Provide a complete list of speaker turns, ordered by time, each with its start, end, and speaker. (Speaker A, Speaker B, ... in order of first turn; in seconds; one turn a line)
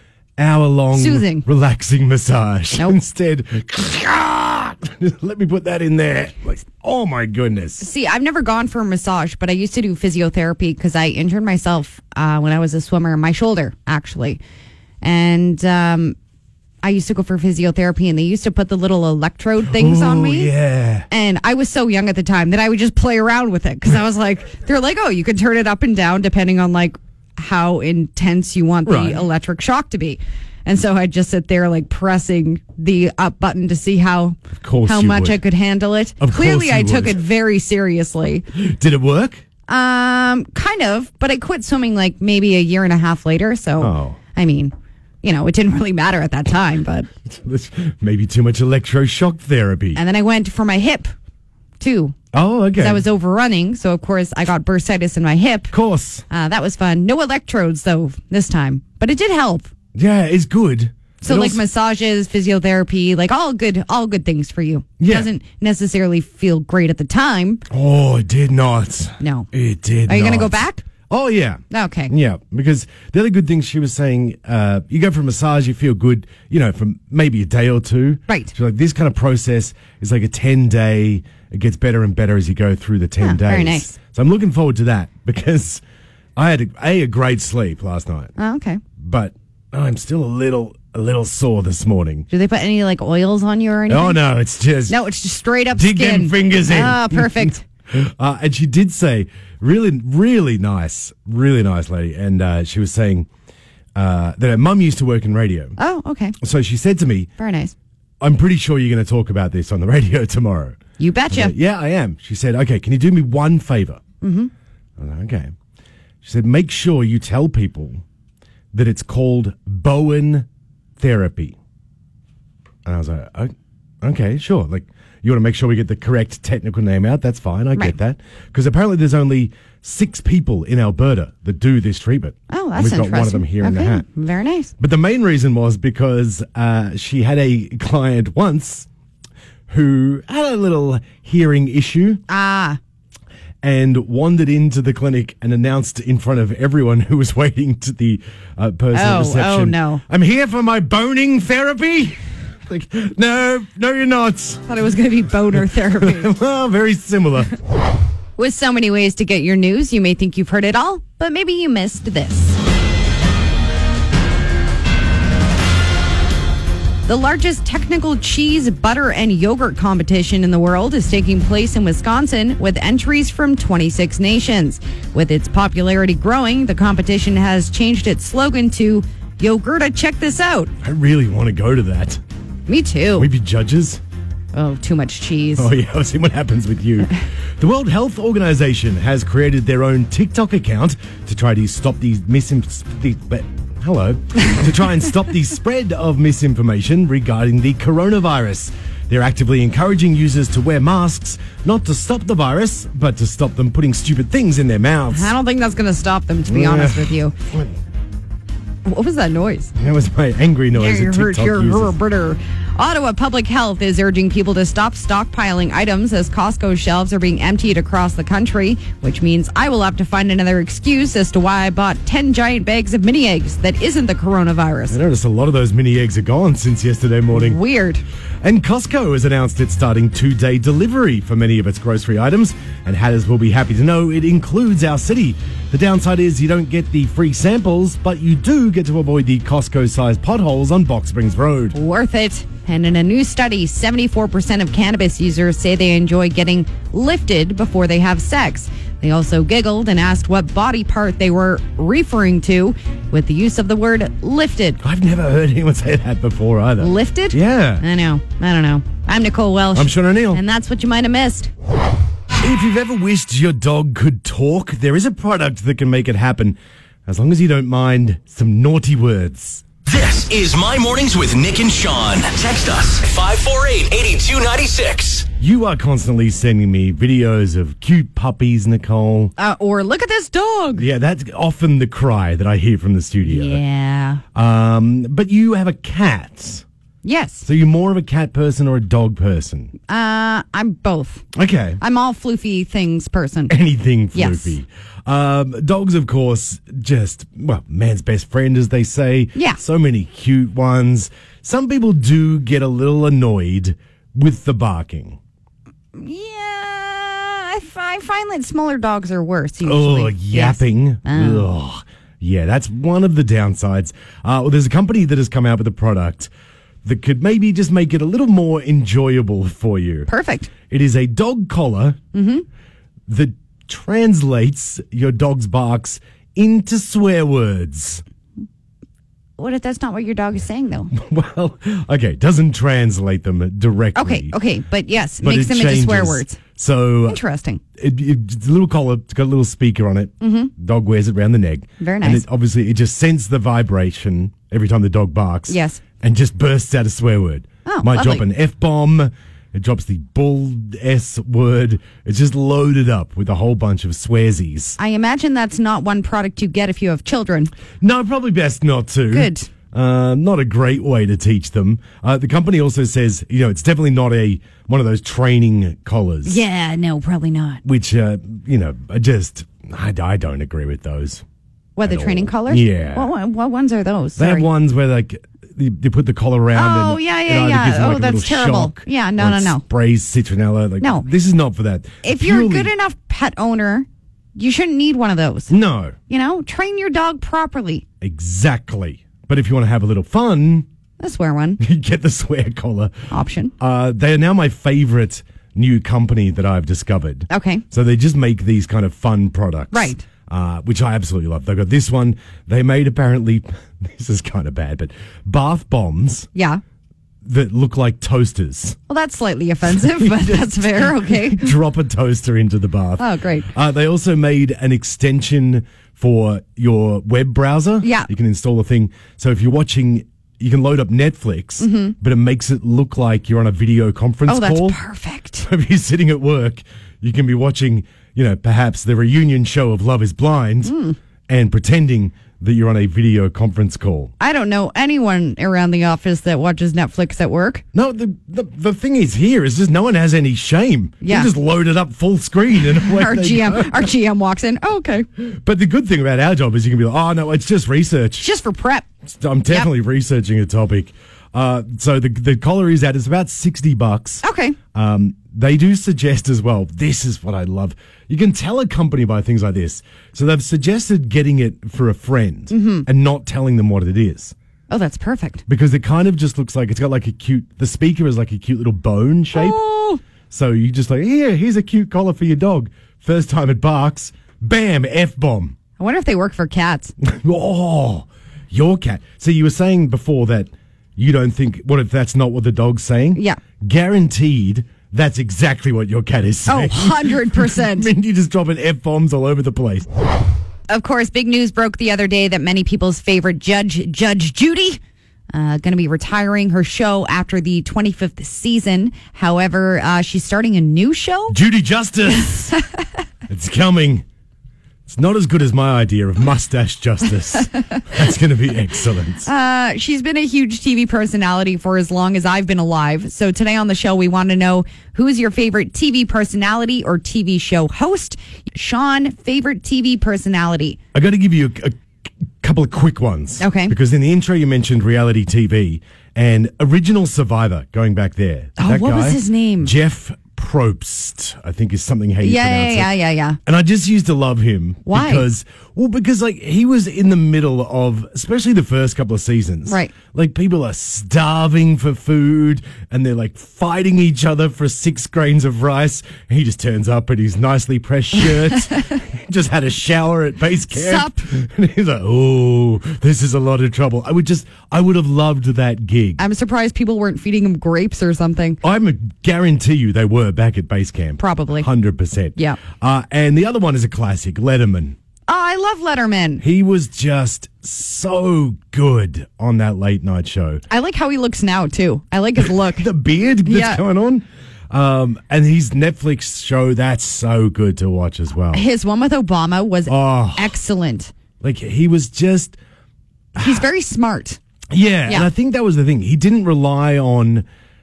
Speaker A: 0.4-7.8
Speaker B: 0.9-1.4
Speaker B: 7.8-14.4
Speaker B: 15.0-16.1
Speaker B: 16.8-20.5
Speaker A: 19.6-21.1
Speaker B: 21.1-38.4
Speaker A: 28.9-29.2
Speaker A: 34.6-35.4
Speaker A: 36.2-37.2
Speaker A: 38.5-39.4
Speaker B: 39.7-47.1
Speaker A: 43.8-44.2
Speaker A: 47.2-50.0
Speaker B: 49.9-51.1
Speaker B: 51.8-52.2
Speaker A: 52.3-53.0
Speaker B: 52.8-55.7
Speaker A: 55.7-56.2
Speaker B: 56.3-59.7
Speaker A: 59.9-61.6
Speaker B: 61.2-67.6
Speaker A: 65.0-65.3
Speaker A: 67.7-85.8
Speaker B: 69.2-69.5
Speaker B: 70.0-70.8
Speaker B: 71.7-72.1
Speaker B: 78.3-78.5
Speaker B: 83.2-83.9
Speaker A: 86.3-88.3
Speaker B: 88.4-88.8
Speaker A: 89.0-92.2
Speaker B: 92.3-94.2
Speaker A: 93.9-95.0
Speaker B: 94.9-97.6
Speaker A: 95.7-103.3
Speaker A: 104.0-105.8
Speaker B: 105.8-106.3
Speaker A: 106.4-107.3
Speaker B: 107.4-107.7
Speaker A: 108.2-110.8
Speaker B: 111.0-111.5
Speaker A: 111.3-114.0
Speaker B: 114.2-114.5
Speaker A: 115.0-115.5
Speaker A: 116.2-118.0
Speaker A: 118.7-120.5
Speaker A: 121.0-121.5
Speaker A: 122.8-134.1
Speaker B: 132.5-134.7
Speaker A: 134.8-138.9
Speaker A: 139.7-142.2
Speaker B: 142.3-142.8
Speaker A: 143.6-154.6
Speaker B: 148.9-150.0
Speaker B: 154.7-156.3
Speaker A: 155.5-157.5
Speaker B: 158.4-162.6
Speaker B: 167.1-180.7
Speaker A: 180.8-182.2
Speaker B: 182.7-183.3
Speaker A: 183.2-184.0
Speaker B: 184.5-185.7
Speaker A: 185.6-205.3
Speaker B: 205.1-207.3
Speaker A: 206.5-207.7
Speaker B: 208.8-209.7
Speaker A: 209.8-211.9
Speaker B: 210.7-225.0
Speaker A: 224.9-227.6
Speaker B: 227.3-228.0
Speaker A: 228.4-241.8
Speaker B: 241.7-254.8
Speaker A: 254.8-257.8
Speaker B: 256.8-261.5
Speaker A: 259.7-260.4
Speaker A: 262.4-269.6
Speaker C: 269.9-275.3
Speaker A: 275.4-279.3
Speaker B: 279.4-280.9
Speaker A: 280.7-283.6
Speaker B: 283.2-284.2
Speaker A: 284.3-286.6
Speaker B: 287.0-287.5
Speaker A: 287.4-289.7
Speaker B: 289.9-291.2
Speaker A: 291.3-291.8
Speaker B: 291.8-293.6
Speaker A: 293.5-305.2
Speaker B: 294.1-294.6
Speaker B: 299.3-299.6
Speaker B: 305.9-311.5
Speaker A: 309.6-316.3
Speaker A: 316.8-320.1
Speaker B: 320.1-320.5
Speaker A: 320.7-322.0
Speaker B: 322.1-322.4
Speaker A: 323.1-328.0
Speaker B: 329.4-330.9
Speaker A: 330.9-334.4
Speaker B: 333.9-336.4
Speaker A: 335.2-337.2
Speaker B: 337.1-337.6
Speaker A: 337.8-354.8
Speaker B: 340.2-340.5
Speaker B: 341.8-342.2
Speaker B: 345.5-345.8
Speaker B: 347.6-348.3
Speaker B: 354.8-357.5
Speaker A: 357.8-366.4
Speaker B: 359.1-359.5
Speaker B: 366.2-367.6
Speaker A: 367.6-371.2
Speaker B: 371.8-374.5
Speaker A: 371.8-373.1
Speaker A: 374.2-382.7
Speaker B: 376.5-379.6
Speaker B: 380.8-381.1
Speaker B: 382.0-385.5
Speaker A: 385.5-385.9
Speaker B: 386.1-387.8
Speaker A: 388.0-390.6
Speaker B: 391.0-391.6
Speaker A: 391.6-393.0
Speaker B: 393.1-393.5
Speaker A: 393.6-406.3
Speaker B: 397.3-397.6
Speaker B: 399.7-400.0
Speaker B: 406.3-406.6
Speaker A: 407.2-408.8
Speaker B: 408.9-411.5
Speaker A: 409.8-424.8
Speaker B: 413.0-413.5
Speaker B: 417.8-418.1
Speaker B: 421.6-421.9
Speaker B: 424.2-425.5
Speaker A: 425.4-430.8
Speaker B: 430.6-430.9
Speaker A: 431.3-434.1
Speaker B: 434.2-437.6
Speaker A: 437.7-443.9
Speaker B: 441.0-441.3
Speaker B: 442.6-445.1
Speaker A: 445.2-448.3
Speaker B: 448.2-448.9
Speaker A: 449.1-464.3
Speaker B: 454.2-454.6
Speaker B: 462.5-462.9
Speaker B: 464.7-465.4
Speaker A: 465.5-469.6
Speaker B: 469.3-470.0
Speaker A: 470.3-475.5
Speaker B: 475.8-476.9
Speaker A: 477.0-489.9
Speaker B: 483.1-483.4
Speaker B: 486.4-487.9
Speaker B: 490.7-494.8
Speaker B: 495.3-501.4
Speaker A: 501.3-502.6
Speaker A: 503.3-504.0
Speaker A: 504.9-509.3
Speaker B: 509.2-520.8
Speaker A: 520.9-521.8
Speaker A: 522.4-556.2
Speaker B: 523.4-523.8
Speaker B: 528.6-529.7
Speaker B: 532.2-533.4
Speaker B: 534.9-535.2
Speaker B: 539.6-539.9
Speaker B: 550.7-551.2
Speaker B: 556.2-558.6
Speaker A: 558.6-565.0
Speaker B: 561.2-561.7
Speaker B: 565.3-566.4
Speaker A: 566.4-570.6
Speaker B: 570.7-572.9
Speaker A: 572.4-578.6
Speaker B: 573.4-573.8
Speaker B: 578.5-581.1
Speaker A: 579.9-580.6
Speaker A: 581.4-582.6
Speaker B: 583.4-584.4
Speaker A: 583.4-583.6
Speaker A: 584.7-587.5